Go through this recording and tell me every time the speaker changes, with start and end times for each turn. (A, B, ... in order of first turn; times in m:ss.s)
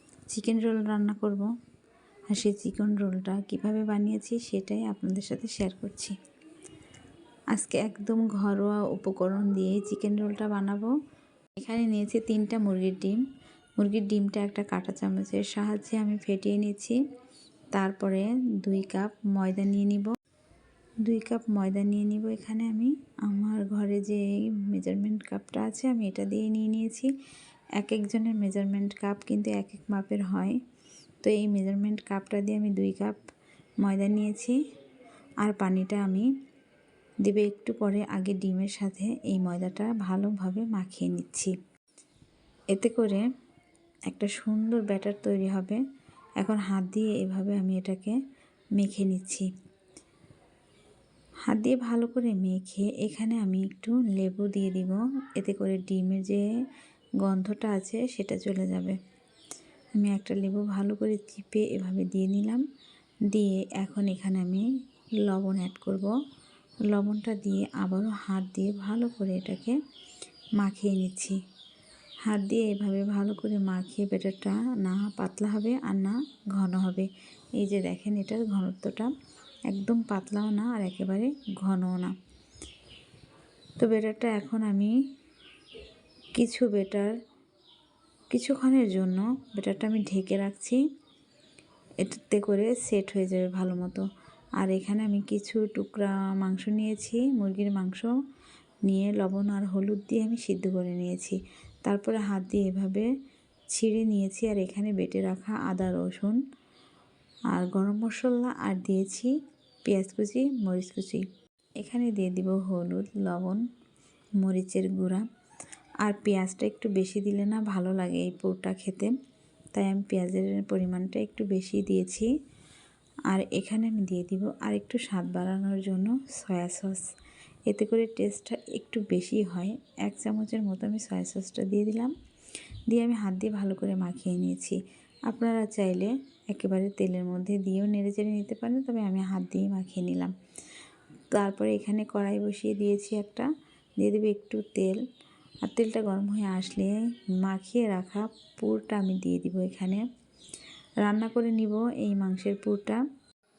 0:00.3-0:01.5 A
0:02.3-0:06.2 A
0:07.5-0:10.9 A
0:11.6-0:13.2 A
0:13.8-0:17.0 A
0:17.7-0:20.2 A
0:21.0-0:27.1 A
0:27.8-0:30.6 A
0:31.2-0:33.2 A
0:33.8-0:34.6 A
0:35.4-0:36.3 A
0:37.2-0:41.5 A
0:42.7-0:43.2 A
0:44.1-0:45.8 A
0:46.4-0:48.2 A
0:48.8-0:49.5 A
0:51.5-0:56.5 A
0:57.2-0:59.0 A
1:00.0-1:02.6 A
1:03.3-1:04.7 A
1:05.2-1:06.2 A
1:06.9-1:09.8 A
1:10.6-1:11.4 A
1:12.2-1:19.1 A
1:19.7-1:22.2 A
1:23.8-1:24.9 A
1:26.4-1:27.2 A
1:28.3-1:30.8 A
1:32.0-1:34.1 A
1:34.6-1:38.1 A
1:38.9-1:43.1 A
1:43.7-1:46.4 A
1:47.5-1:49.3 A
1:49.9-1:51.3 A
1:51.8-1:53.6 A
1:54.4-1:55.2 A
1:56.0-1:59.1 A
1:59.7-2:02.3 A
2:03.3-2:07.0 A
2:07.7-2:12.1 A
2:12.9-2:20.3 A
2:21.3-2:25.0 A
2:25.6-2:30.0 A
2:31.0-2:33.0 A